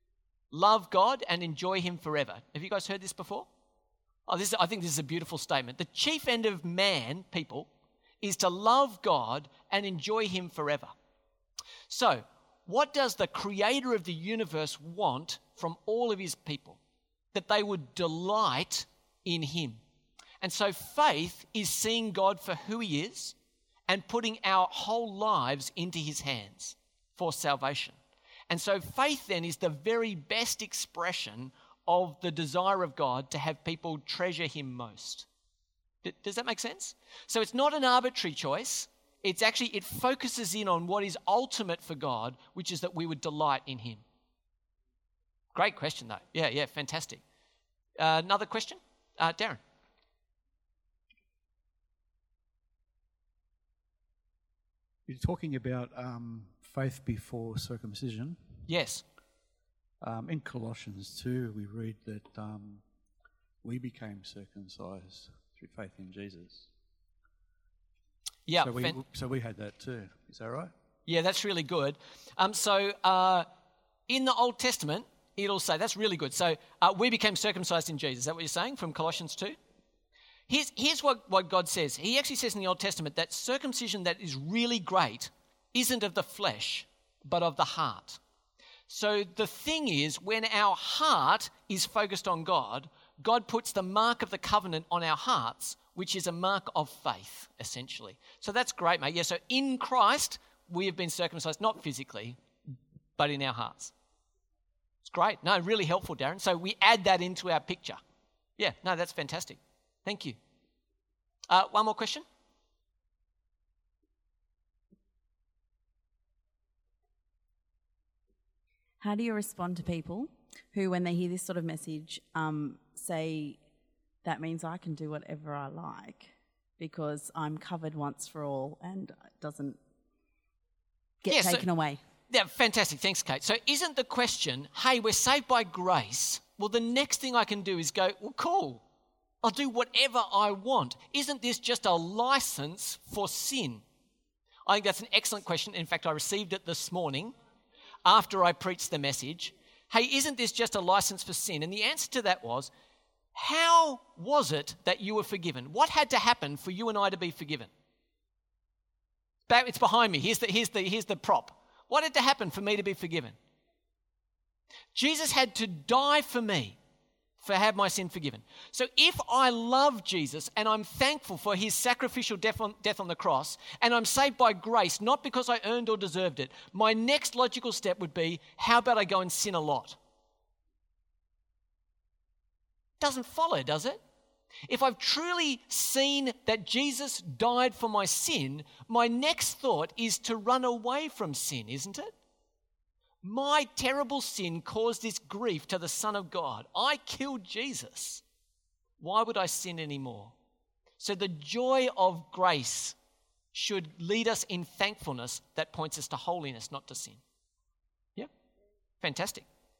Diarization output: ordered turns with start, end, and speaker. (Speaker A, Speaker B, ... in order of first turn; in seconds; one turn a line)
Speaker A: 0.5-3.5
Speaker A: 4.3-7.7
Speaker A: 8.2-10.9
Speaker A: 11.9-16.8
Speaker A: 17.3-19.8
Speaker A: 20.4-23.4
Speaker A: 23.9-28.0
Speaker A: 28.5-35.3
Speaker A: 36.0-44.0
Speaker A: 45.5-47.2
Speaker A: 48.0-49.6
Speaker B: 55.1-58.5
Speaker A: 58.7-59.0
Speaker B: 60.0-62.8
Speaker B: 63.6-66.7
Speaker A: 68.5-69.0
Speaker B: 68.6-70.7
Speaker A: 71.1-73.5
Speaker A: 74.1-79.6
Speaker A: 80.5-88.2
Speaker A: 88.9-102.4
Speaker A: 103.2-103.9
Speaker A: 105.0-108.0
Speaker A: 108.6-110.4
Speaker A: 111.5-112.2
Speaker C: 119.0-123.6
Speaker C: 124.2-129.8
Speaker C: 131.2-132.0
Speaker A: 131.3-131.7
Speaker A: 132.3-138.8
Speaker A: 139.4-143.8
Speaker A: 144.7-147.3
Speaker A: 148.1-152.7
Speaker A: 153.3-157.7
Speaker A: 159.5-163.4
Speaker A: 164.9-166.8
Speaker A: 167.4-180.0
Speaker A: 183.0-184.0
Speaker A: 184.7-192.1
Speaker A: 193.2-198.2
Speaker A: 199.0-200.3
Speaker A: 201.0-203.0
Speaker A: 203.5-207.2
Speaker A: 209.0-209.5